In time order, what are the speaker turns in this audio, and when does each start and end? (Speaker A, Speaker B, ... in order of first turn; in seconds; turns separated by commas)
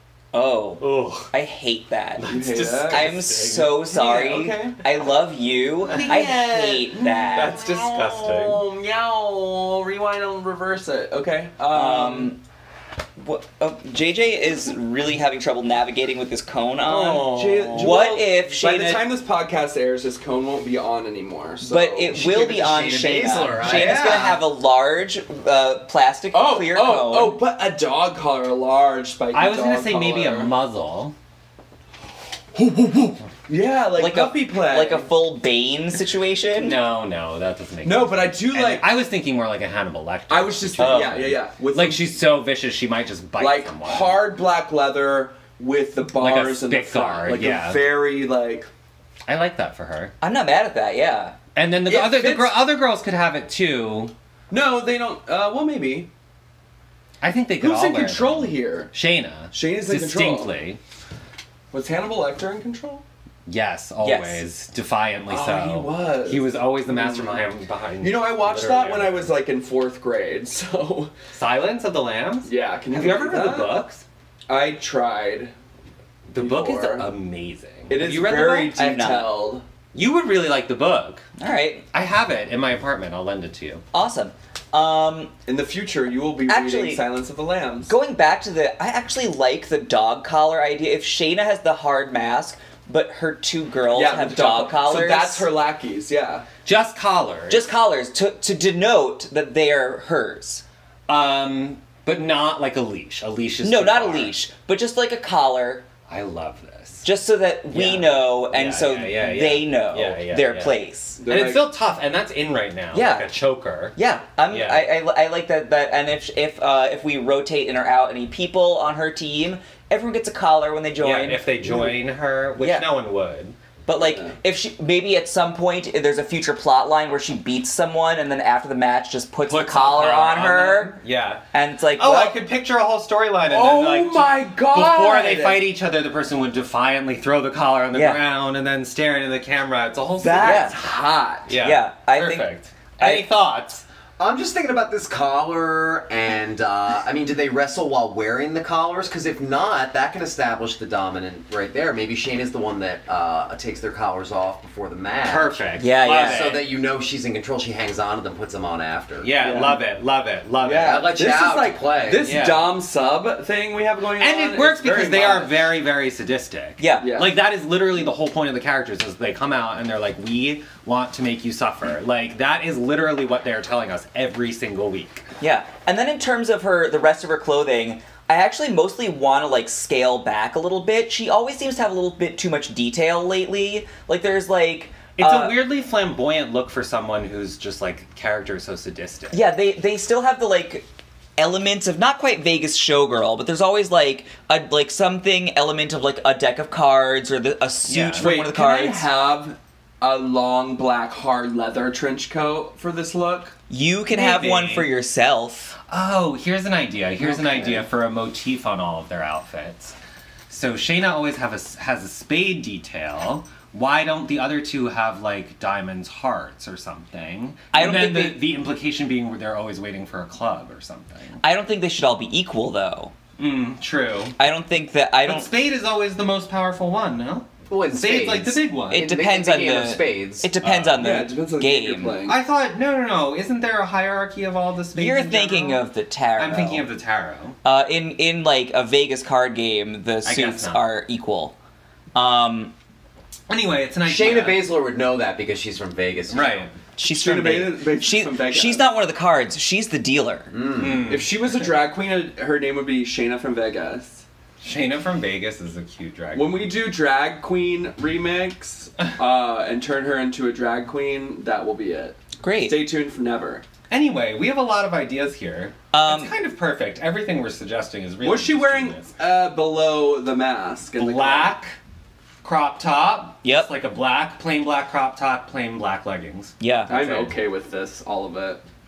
Speaker A: 0.3-2.2, Speaker B: 0.8-1.3, Speaker B: 2.2-3.7, Speaker C: 2.3-3.1, Speaker A: 2.9-7.5, Speaker C: 3.9-4.8, Speaker B: 5.9-6.4, Speaker C: 5.9-12.3, Speaker B: 7.3-8.6, Speaker A: 11.7-12.4, Speaker A: 13.2-19.0, Speaker C: 16.8-22.2, Speaker B: 17.1-18.0, Speaker A: 21.6-27.4, Speaker D: 22.1-24.4, Speaker C: 26.3-30.5, Speaker B: 29.3-31.1, Speaker C: 32.5-35.1, Speaker A: 34.0-36.8, Speaker B: 36.6-44.2, Speaker C: 37.8-38.9, Speaker C: 40.3-42.1, Speaker C: 43.4-48.7, Speaker B: 46.1-47.9, Speaker B: 49.3-50.1, Speaker A: 50.2-51.4, Speaker B: 51.5-54.1, Speaker C: 51.9-52.6, Speaker C: 54.5-56.1, Speaker B: 57.2-60.8, Speaker C: 57.6-58.9, Speaker C: 59.5-60.5, Speaker C: 61.7-63.0, Speaker B: 63.5-69.3, Speaker A: 64.0-64.5, Speaker C: 65.3-67.4, Speaker C: 68.0-71.1, Speaker B: 71.3-74.0, Speaker C: 72.4-73.8, Speaker C: 74.5-75.5, Speaker B: 76.3-78.8, Speaker C: 76.4-77.1, Speaker C: 77.9-79.6, Speaker A: 78.8-79.3, Speaker B: 79.9-81.2, Speaker A: 81.4-81.8, Speaker B: 81.9-83.8, Speaker A: 83.9-85.3, Speaker C: 85.5-87.9, Speaker A: 86.5-87.0, Speaker A: 87.9-95.5, Speaker C: 93.9-96.5, Speaker B: 96.6-97.7, Speaker A: 97.5-100.6, Speaker B: 101.1-104.3, Speaker A: 103.6-105.8, Speaker B: 106.1-107.0, Speaker A: 107.0-111.2, Speaker B: 107.7-114.0, Speaker C: 111.2-111.7, Speaker A: 112.9-113.3, Speaker A: 114.0-121.4, Speaker B: 114.5-114.9, Speaker B: 121.0-123.5, Speaker A: 122.6-122.9, Speaker A: 123.9-131.0, Speaker C: 124.0-124.3, Speaker B: 129.5-140.9, Speaker A: 131.5-132.4, Speaker C: 133.5-135.7, Speaker A: 137.9-138.2, Speaker A: 140.2-140.8, Speaker C: 140.2-141.5, Speaker B: 141.5-143.8, Speaker A: 141.6-143.3, Speaker D: 144.2-155.6, Speaker B: 155.2-156.7, Speaker A: 155.8-156.5, Speaker D: 156.2-159.3, Speaker B: 159.2-161.0, Speaker C: 159.4-159.8, Speaker C: 160.6-165.7, Speaker D: 160.7-162.3, Speaker B: 162.2-162.7, Speaker B: 164.2-175.2, Speaker A: 166.8-167.1, Speaker C: 167.0-167.4, Speaker A: 175.4-185.6, Speaker B: 185.2-189.4, Speaker A: 189.3-190.9, Speaker A: 191.4-199.1, Speaker B: 197.9-198.3, Speaker C: 198.2-203.5, Speaker A: 203.7-205.8, Speaker B: 204.1-204.9, Speaker B: 205.9-210.0, Speaker C: 207.2-207.8, Speaker B: 210.5-221.4, Speaker A: 217.7-218.4, Speaker A: 221.4-223.1, Speaker B: 223.4-224.4, Speaker A: 224.4-225.5, Speaker B: 225.2-229.1, Speaker D: 227.7-230.5, Speaker A: 228.9-232.2, Speaker B: 230.6-231.2, Speaker C: 231.0-232.4, Speaker B: 232.2-235.9, Speaker A: 234.9-236.9, Speaker B: 236.4-237.6, Speaker A: 237.6-241.6, Speaker B: 240.2-240.8, Speaker A: 242.1-242.7, Speaker B: 243.5-244.6, Speaker D: 244.0-246.7, Speaker B: 246.3-246.7, Speaker A: 247.0-250.5, Speaker C: 247.0-248.9, Speaker D: 250.5-251.1, Speaker B: 250.8-251.3, Speaker C: 251.1-254.2, Speaker B: 254.6-256.6, Speaker C: 256.3-263.6, Speaker A: 262.4-262.8, Speaker B: 263.9-269.1, Speaker A: 265.9-266.3, Speaker C: 268.2-271.6, Speaker B: 271.0-271.8, Speaker B: 272.4-277.3, Speaker A: 273.4-273.7, Speaker A: 276.6-277.0, Speaker C: 276.9-278.6